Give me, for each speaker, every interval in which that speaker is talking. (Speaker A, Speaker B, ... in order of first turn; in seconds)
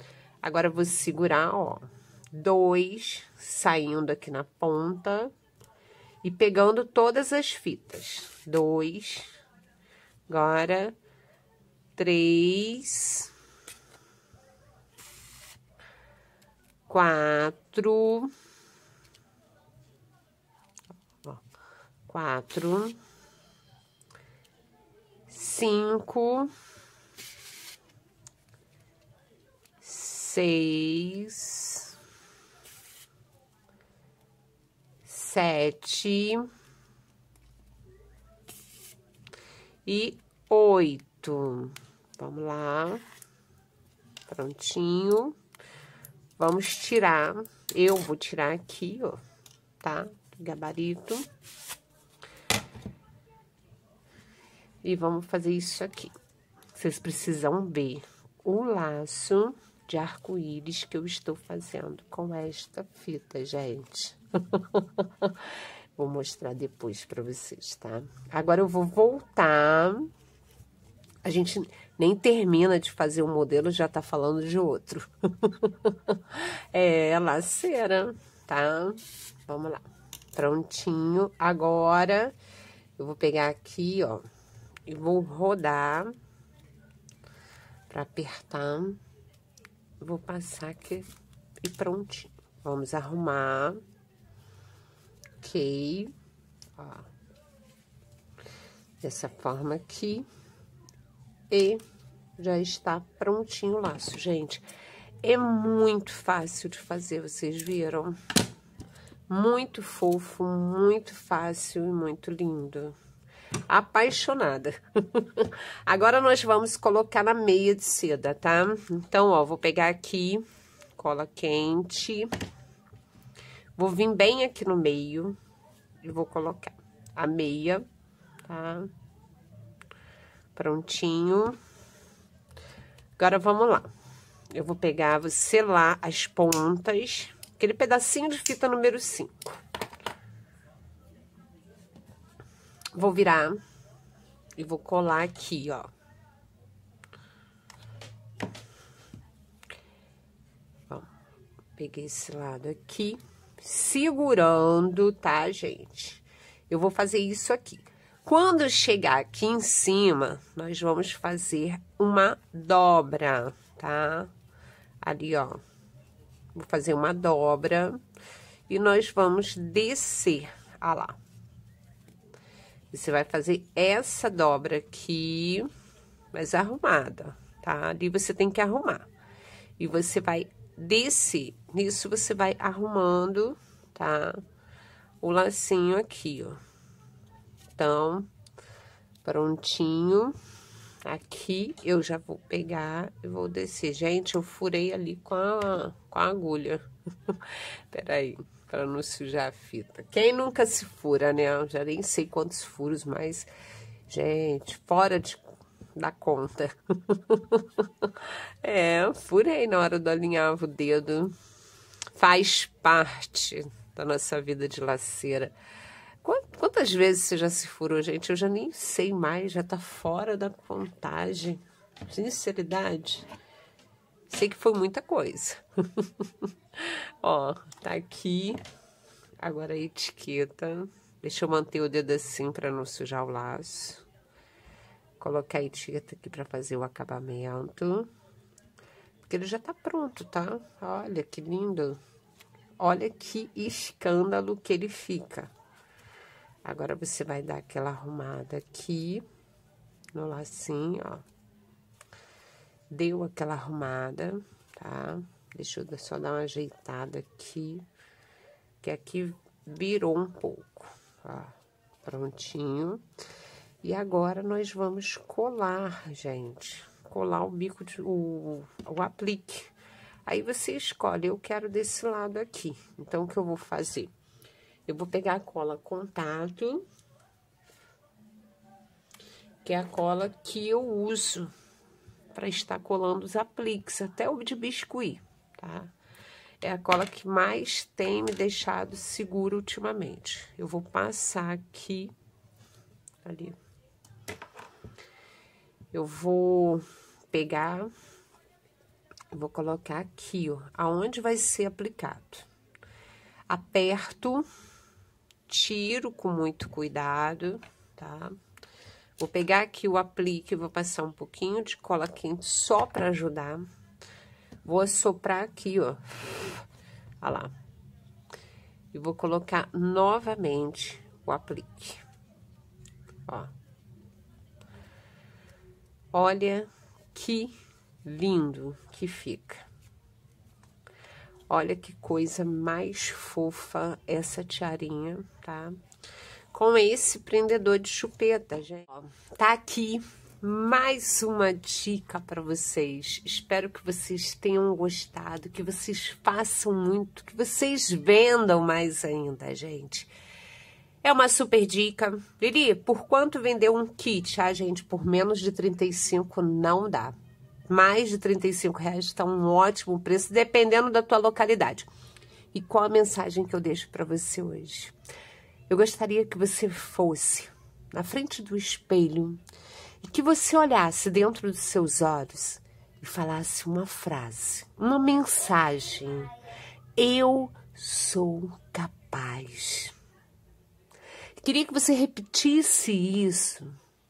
Speaker A: 0.4-5.3, 6.2-9.3, 10.3-11.0, 12.0-13.3, 16.9-18.3, 22.1-23.0, 25.3-26.5, 29.8-31.9, 35.1-36.5, 39.9-43.0, 44.3-45.4, 46.4-49.2, 49.8-51.3, 54.8-56.1, 56.8-70.1, 71.2-82.3, 83.0-84.2, 84.9-86.1, 87.9-89.0, 90.0-91.1, 91.6-93.8, 95.4-96.1, 96.8-97.1, 99.0-100.3, 101.5-101.8, 102.4-104.7, 105.2-108.2, 109.3-113.0, 113.7-120.4, 121.0-122.3, 123.8-125.4, 126.0-127.8, 128.5-128.9, 130.6-131.6, 133.2-133.9, 134.5-139.6, 142.9-143.6, 144.6-145.9, 151.8-164.3, 165.0-165.6, 166.5-168.0, 168.7-171.2, 172.9-175.7, 176.3-179.1, 179.8-184.4, 185.2-186.6, 187.8-188.3, 189.2-190.4, 191.0-203.5, 204.1-211.3, 212.2-215.6, 216.2-223.3, 224.3-228.6, 229.4-234.1, 235.2-238.1, 239.2-242.0, 242.8-245.5, 246.6-249.2, 250.1-251.2, 252.9-257.9, 258.8-263.0, 263.8-269.7, 270.3-274.1, 274.9-276.9, 279.6-281.5, 282.3-285.9, 286.6-292.1, 293.2-293.6, 295.9-297.9, 299.3-302.5, 303.5-304.5, 305.5-308.3, 309.2-313.6, 314.6-316.6, 317.2-317.5, 318.9-322.0, 323.3-323.5, 326.1-329.7, 331.5-335.8, 336.5-350.1, 351.0-357.1, 357.7-361.9, 362.5-364.9, 365.7-369.4, 370.0-376.3, 377.0-379.9, 381.4-383.8